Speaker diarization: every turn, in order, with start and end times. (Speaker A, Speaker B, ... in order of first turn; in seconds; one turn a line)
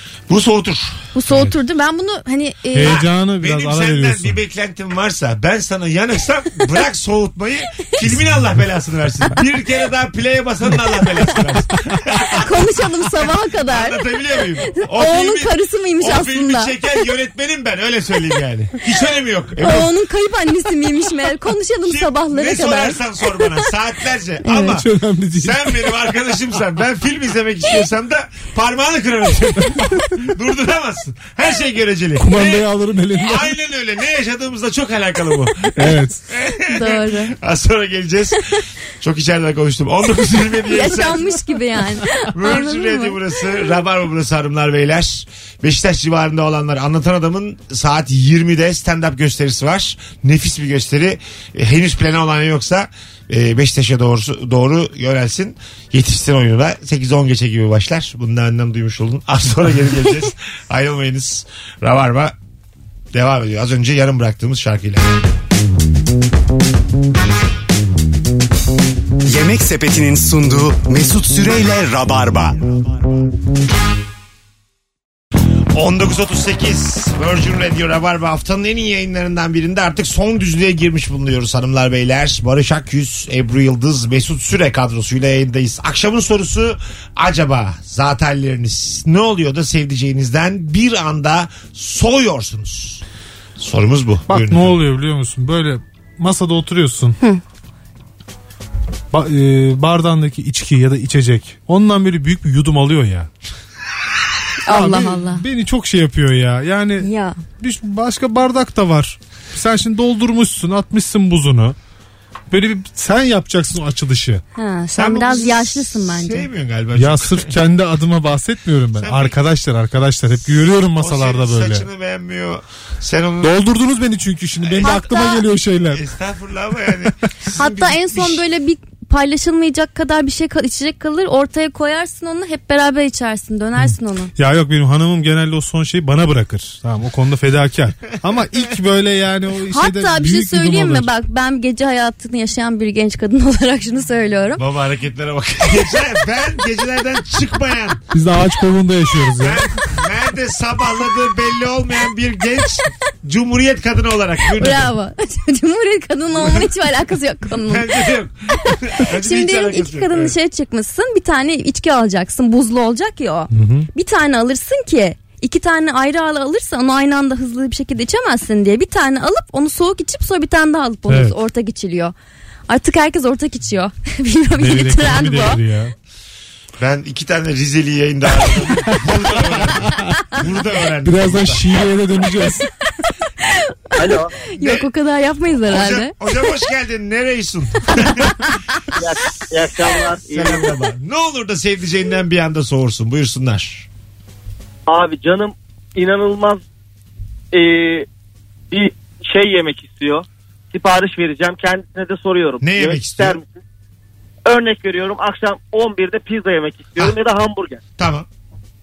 Speaker A: 0.3-1.1
Speaker B: 1.1-3.0
Speaker C: 2.7-4.4
Speaker A: 2.8-19.9
Speaker B: 12.4-14.0
Speaker B: 14.7-16.7
Speaker B: 19.6-23.5
Speaker A: 21.8-24.8
Speaker C: 24.5-25.8
Speaker A: 25.4-32.6
Speaker C: 32.2-33.5
Speaker A: 33.2-38.4
Speaker C: 35.8-36.2
Speaker B: 36.6-37.3
Speaker A: 39.0-41.3
Speaker B: 40.7-43.2
Speaker A: 42.3-62.4
Speaker A: 63.1-65.1
Speaker D: 69.2-72.7
Speaker A: 75.7-93.0
Speaker A: 93.6-94.8
Speaker C: 94.3-97.2
Speaker C: 99.1-103.3
Speaker B: 104.7-105.4
Speaker C: 104.7-111.7
Speaker B: 107.0-107.4
Speaker C: 112.5-114.4
Speaker B: 114.5-116.5
Speaker A: 114.9-117.5
Speaker C: 117.0-121.8
Speaker A: 119.0-119.4
Speaker A: 121.0-123.5
Speaker C: 123.4-126.0
Speaker A: 124.6-125.1
Speaker B: 124.8-125.4
Speaker A: 125.9-128.4
Speaker B: 127.5-134.3
Speaker C: 133.8-141.1
Speaker B: 139.7-144.6
Speaker A: 144.6-148.0
Speaker C: 148.1-149.6
Speaker A: 149.4-154.9
Speaker B: 154.6-158.1
Speaker A: 156.4-156.7
Speaker A: 157.7-160.3
Speaker B: 159.1-172.1
Speaker C: 163.5-163.9
Speaker C: 171.1-171.3
Speaker B: 172.7-175.6
Speaker C: 174.6-175.9
Speaker A: 176.8-181.7
Speaker C: 179.8-180.2
Speaker C: 181.0-182.7
Speaker B: 183.4-186.2
Speaker E: 184.0-184.3
Speaker A: 184.6-184.9
Speaker A: 185.7-188.3
Speaker B: 188.0-188.8
Speaker E: 188.9-190.7
Speaker A: 190.3-193.9
Speaker E: 194.9-196.6
Speaker E: 197.5-198.1
Speaker E: 198.7-203.6
Speaker A: 202.6-203.4
Speaker E: 204.4-207.8
Speaker A: 208.0-208.3